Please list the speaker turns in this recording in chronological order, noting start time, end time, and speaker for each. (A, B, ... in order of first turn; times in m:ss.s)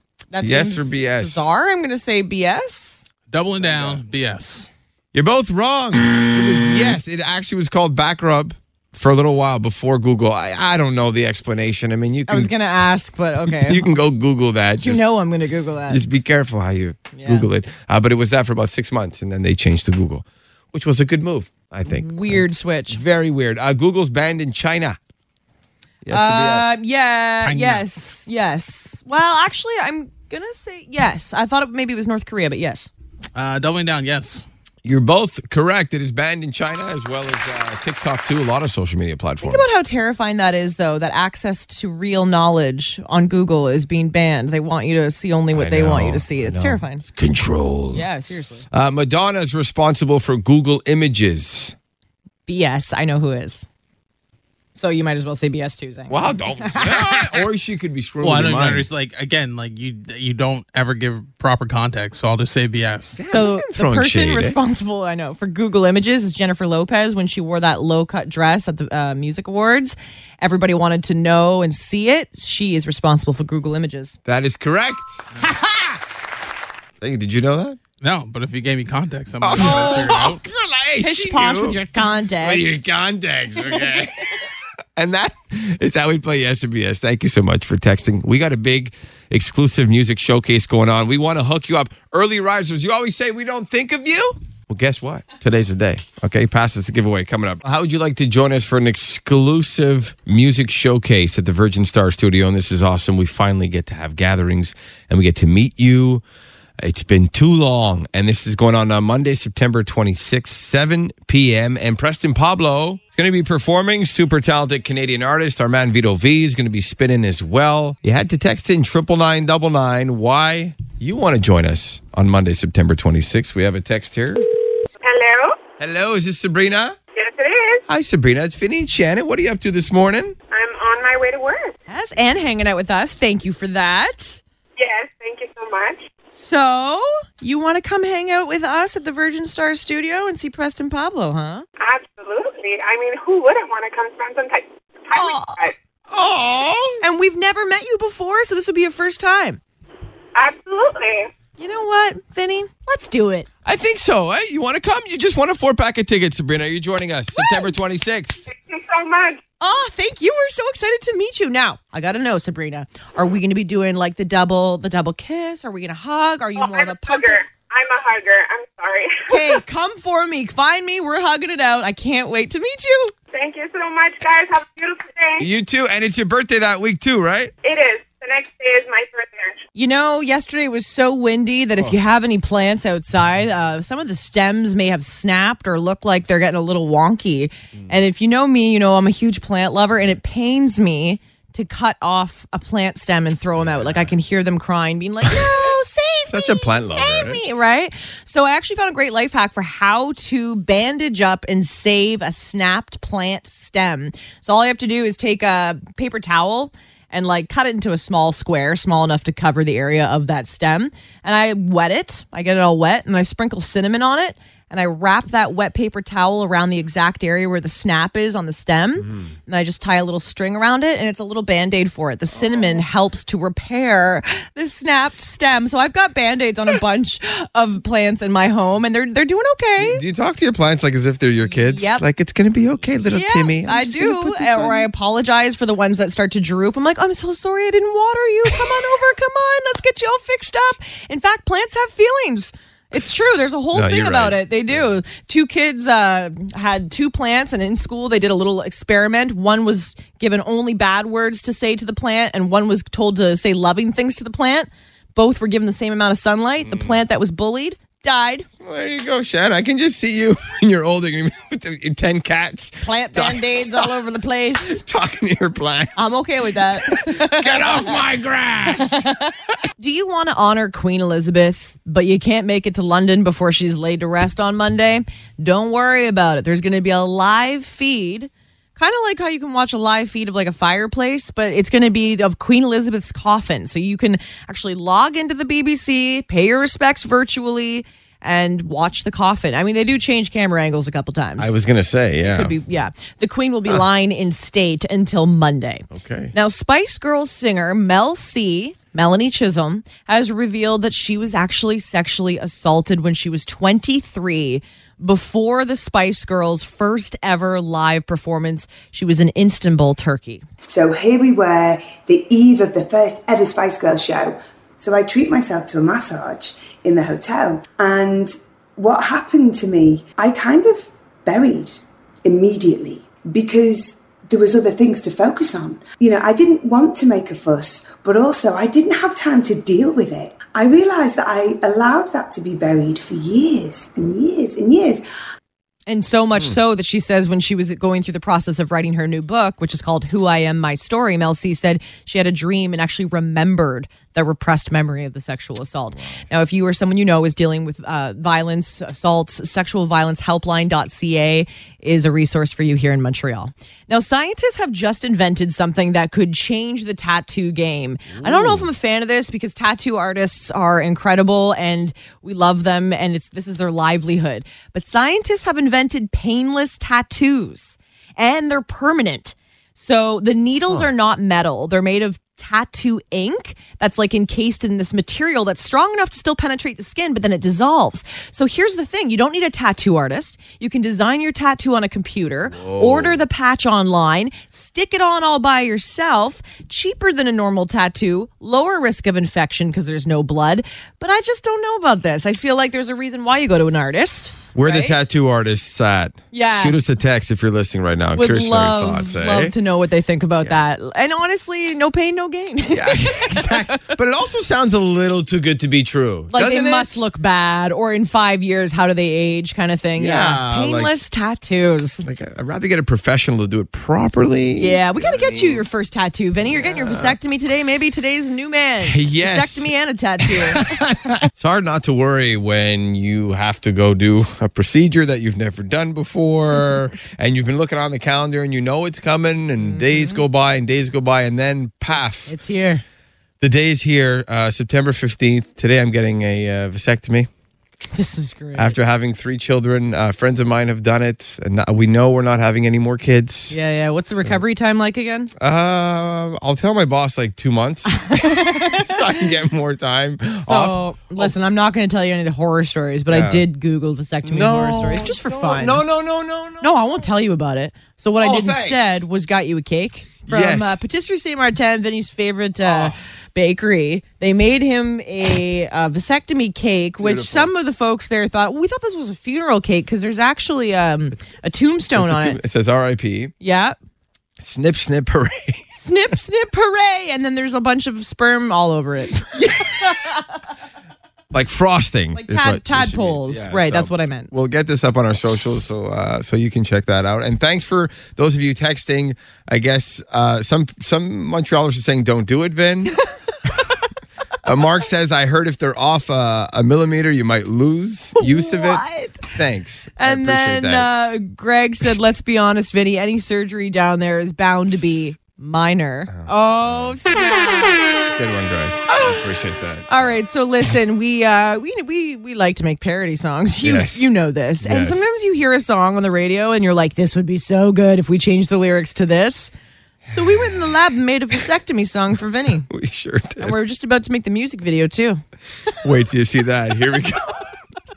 0:00.3-0:03.0 A
0:00.4-0:01.4 B
0:03.3-0:04.7 C
0:03.6-0:04.0 B
0:05.1-0:12.5 B
0:12.3-0:14.0 A
0:13.4-0:15.0 B
0:14.8-0:16.0 A
0:15.9-0:25.0 B
0:17.1-0:17.4 A
0:21.8-0:23.0 A
0:26.0-0:26.7 B
0:26.1-0:32.9 A
0:27.4-0:27.8 C
0:33.4-0:34.4 C
0:34.8-0:39.7 B
0:39.4-0:47.0 A
0:45.5-0:48.0 B
0:47.9-0:48.6 A
0:48.7-0:51.7 B
0:52.5-0:53.7 A
0:54.8-0:57.4 A
0:56.1-0:58.9 B
0:58.2-1:03.2 C
1:03.2-1:04.6 B
1:03.3-1:14.2 A
1:14.2-1:15.2 B
1:17.0-1:17.8 B
1:18.0-1:20.4 C
1:19.4-1:21.8 B
1:19.6-1:20.3 A
1:21.0-1:22.8 A
1:22.4-1:24.2 B
1:25.0-1:46.2 B
1:46.8-2:04.4 B
2:05.0-2:05.6 D
2:05.8-2:07.0 B
2:07.1-2:07.8 D
2:07.9-2:10.3 B
2:10.5-2:11.7 D
2:11.9-2:14.4 A
2:14.8-2:16.1 D
2:16.3-2:21.6 A
2:21.8-2:25.7 D
2:25.1-2:25.7 A
2:26.1-2:27.0 B
2:27.0-2:29.6 A
2:30.3-2:31.3 D
2:31.6-2:33.5 A
2:33.6-2:38.4 B
2:37.4-2:37.7 A
2:38.5-2:39.4 D
2:39.6-2:47.4 A
2:46.6-2:49.6 D
2:49.3-2:53.1 A
2:53.3-2:55.5 D
2:55.4-2:57.5 B
2:57.6-2:59.6 D
2:59.7-3:50.0 A
3:13.6-3:14.1 B
3:16.3-3:17.4 B
3:39.0-3:39.3 B
3:42.3-3:42.8 B
3:49.8-3:54.9 B
3:51.5-3:52.0 A
3:53.1-4:18.5 A
4:03.7-4:04.9 B
4:16.6-4:17.0 B
4:18.6-4:23.9 B
4:22.8-4:24.8 A
4:24.6-4:26.1 B
4:26.0-4:27.9 A
4:26.8-4:29.0 B
4:28.8-4:51.6 A
4:51.4-4:52.5 B
4:52.3-5:10.4 A
4:55.9-4:56.3 B
5:10.6-5:35.0 E
5:35.9-6:35.0 A
5:58.1-5:58.7 B
6:22.5-6:23.2 B
6:34.5-6:39.5 B
6:36.3-6:36.8 A
6:38.2-6:43.9 A
6:42.7-6:47.0 B
6:46.3-6:52.0 A
6:50.0-6:50.9 B
6:52.0-6:55.6 B
6:54.6-7:00.7 A
6:56.4-6:57.2 B
6:58.8-6:59.7 B
7:00.2-7:12.3 B
7:09.6-7:10.2 A
7:12.3-7:12.8 A
7:13.4-7:17.3 B
7:17.9-7:18.8 A
7:18.6-7:23.6 B
7:23.5-7:25.3 A
7:25.4-7:31.3 B
7:27.9-7:28.9 A
7:30.4-7:35.8 A
7:33.1-7:33.4 B
7:34.2-7:36.7 B
7:36.6-7:52.4 A
7:38.2-7:39.0 B
7:40.3-7:40.8 B
7:42.6-7:42.9 B
7:47.0-7:47.5 B
7:51.9-7:53.3 B
7:53.4-7:53.8 A
7:54.4-7:55.7 B
7:55.8-8:00.2 A
7:59.3-7:59.9 B
8:01.3-8:13.0 B
8:02.1-8:04.3 A
8:14.4-8:20.9 B
8:18.2-8:19.3 A
8:20.0-8:28.0 A
8:26.1-8:27.0 B
8:28.1-8:30.1 B
8:28.9-8:29.3 A
8:29.9-8:39.5 A
8:33.6-8:34.1 B
8:34.6-8:35.0 B
8:40.0-8:40.7 B
8:40.1-8:42.7 A
8:42.7-8:43.6 B
8:43.4-8:45.2 A
8:45.8-8:47.5 B